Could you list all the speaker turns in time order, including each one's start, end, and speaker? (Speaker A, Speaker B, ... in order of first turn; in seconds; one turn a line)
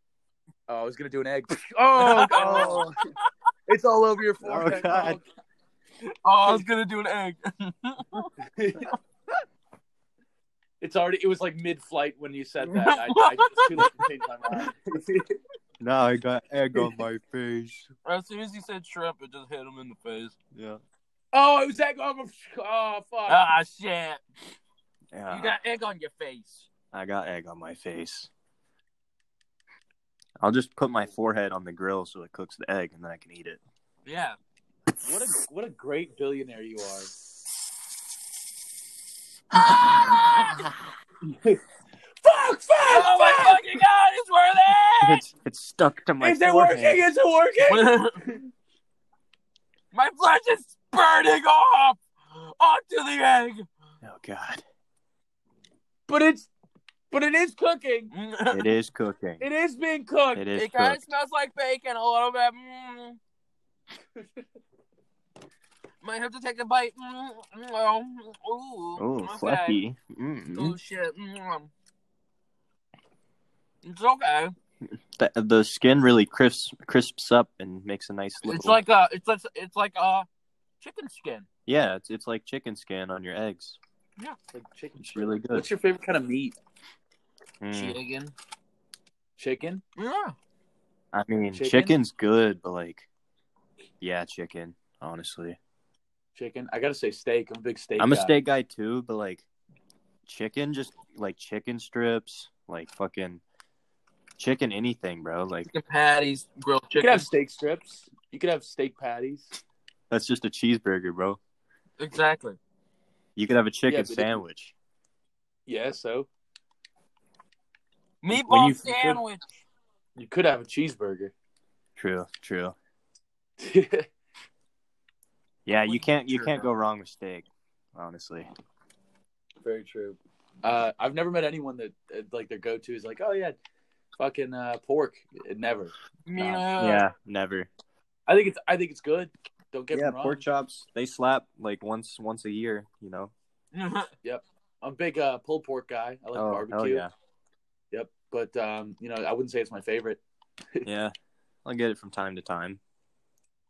Speaker A: 0.7-2.9
Speaker B: 2.0-2.9
Speaker C: 2.3-2.9
Speaker A: 3.7-5.2
Speaker C: 4.4-5.2
Speaker B: 6.2-8.3
Speaker A: 8.5-8.9
Speaker A: 10.8-15.3
Speaker B: 12.9-13.9
Speaker C: 15.8-17.9
Speaker B: 18.0-20.4
Speaker C: 20.5-20.8
Speaker A: 21.3-23.6
Speaker B: 23.3-24.2
Speaker C: 25.1-25.6
Speaker B: 25.3-26.7
Speaker C: 26.9-28.3
Speaker C: 30.4-33.6
Speaker B: 34.0-34.4
Speaker A: 35.0-37.1
Speaker A: 41.2-41.6
Speaker A: 42.2-43.6
Speaker B: 42.9-45.2
Speaker C: 45.0-47.0
Speaker A: 46.2-48.4
Speaker B: 47.7-48.3
Speaker B: 49.9-53.7
Speaker C: 54.0-54.6
Speaker A: 56.1-56.5
Speaker A: 57.1-58.1
Speaker B: 58.1-58.7
Speaker C: 58.5-59.4
Speaker A: 59.4-60.5
Speaker C: 60.3-61.0
Speaker B: 60.5-63.2
Speaker B: 66.0-69.8
Speaker C: 69.0-70.8
Speaker B: 70.5-71.7
Speaker B: 73.8-74.5
Speaker C: 74.8-78.8
Speaker B: 78.4-80.3
Speaker B: 80.8-81.5
Speaker C: 81.7-83.8
Speaker A: 84.5-86.5
Speaker C: 85.0-85.7
Speaker C: 87.6-88.0
Speaker B: 87.7-88.3
Speaker A: 89.4-89.8
Speaker B: 90.0-90.3
Speaker C: 91.1-93.1
Speaker A: 91.5-92.0
Speaker C: 94.0-95.6
Speaker A: 96.3-98.3
Speaker C: 98.0-99.5
Speaker C: 100.3-103.4
Speaker C: 104.4-105.7
Speaker B: 105.7-107.3
Speaker A: 107.0-109.5
Speaker C: 110.1-111.4
Speaker B: 112.0-112.6
Speaker C: 113.3-114.7
Speaker A: 113.9-114.4
Speaker A: 115.7-116.3
Speaker B: 118.2-119.4
Speaker A: 118.3-119.2
Speaker A: 120.2-121.3
Speaker C: 122.0-122.8
Speaker A: 123.6-124.1
Speaker C: 125.7-128.5
Speaker B: 125.8-126.7
Speaker A: 129.6-133.6
Speaker A: 134.2-135.9
Speaker B: 136.2-137.1
Speaker C: 136.4-137.7
Speaker A: 138.3-140.4
Speaker C: 139.9-143.3
Speaker B: 143.7-144.1
Speaker A: 144.2-147.1
Speaker C: 146.3-147.1
Speaker A: 147.9-150.2
Speaker C: 150.8-152.8